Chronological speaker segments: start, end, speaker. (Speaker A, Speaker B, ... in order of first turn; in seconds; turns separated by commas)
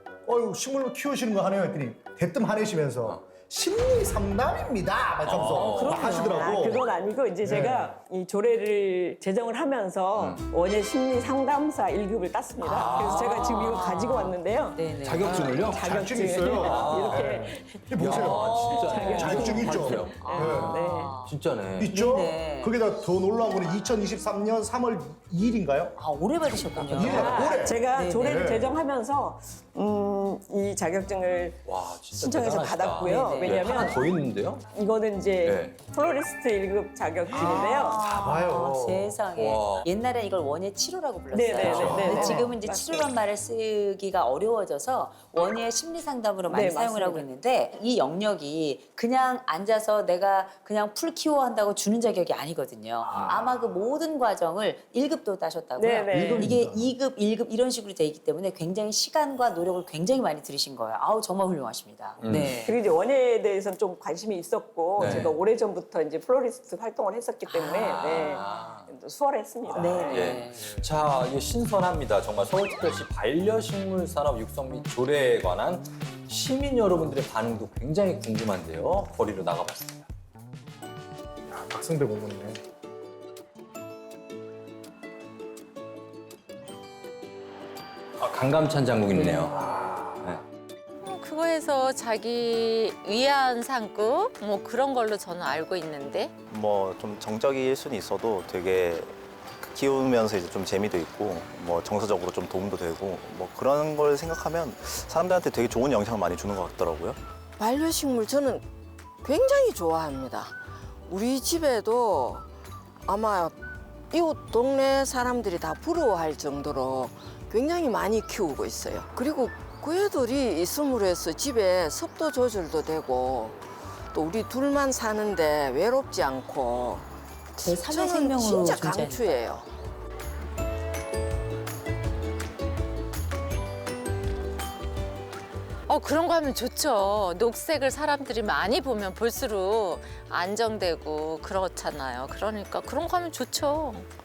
Speaker A: 0.3-7.9, Speaker B: 5.2-6.2, Speaker C: 5.6-6.7, Speaker D: 5.8-21.1, Speaker B: 10.2-10.4, Speaker C: 12.6-15.5, Speaker B: 12.7-13.8, Speaker B: 15.0-17.4, Speaker A: 15.8-20.8, Speaker B: 18.0-20.7, Speaker C: 18.0-21.4, Speaker B: 21.2-21.9, Speaker A: 21.8-25.9, Speaker C: 21.9-22.8, Speaker C: 26.0-28.4, Speaker A: 26.9-28.8, Speaker D: 27.0-34.0, Speaker B: 31.6-34.7, Speaker C: 33.0-34.0, Speaker D: 34.7-38.0, Speaker B: 35.4-35.8, Speaker A: 37.3-39.2, Speaker C: 37.3-62.8, Speaker B: 38.1-38.5, Speaker B: 39.3-39.9, Speaker D: 41.3-43.1, Speaker B: 41.6-42.4, Speaker A: 42.1-42.5, Speaker D: 46.5-47.3, Speaker B: 53.1-53.4, Speaker D: 55.8-56.5, Speaker A: 56.1-56.9, Speaker B: 62.2-62.7, Speaker D: 62.6-70.4, Speaker B: 65.0-65.3, Speaker C: 65.0-65.3, Speaker C: 67.5-68.2, Speaker B: 67.7-68.9, Speaker C: 69.7-70.7, Speaker B: 69.9-80.1, Speaker A: 81.5-82.6, Speaker B: 88.2-90.4, Speaker E: 91.0-96.3, Speaker F: 96.5-107.2, Speaker G: 107.6-108.6, Speaker G: 109.2-110.6, Speaker G: 111.1-112.5, Speaker G: 113.0-113.5, Speaker G: 114.1-123.6, Speaker G: 124.1-129.7, Speaker C: 127.6-129.6, Speaker E: 135.9-144.1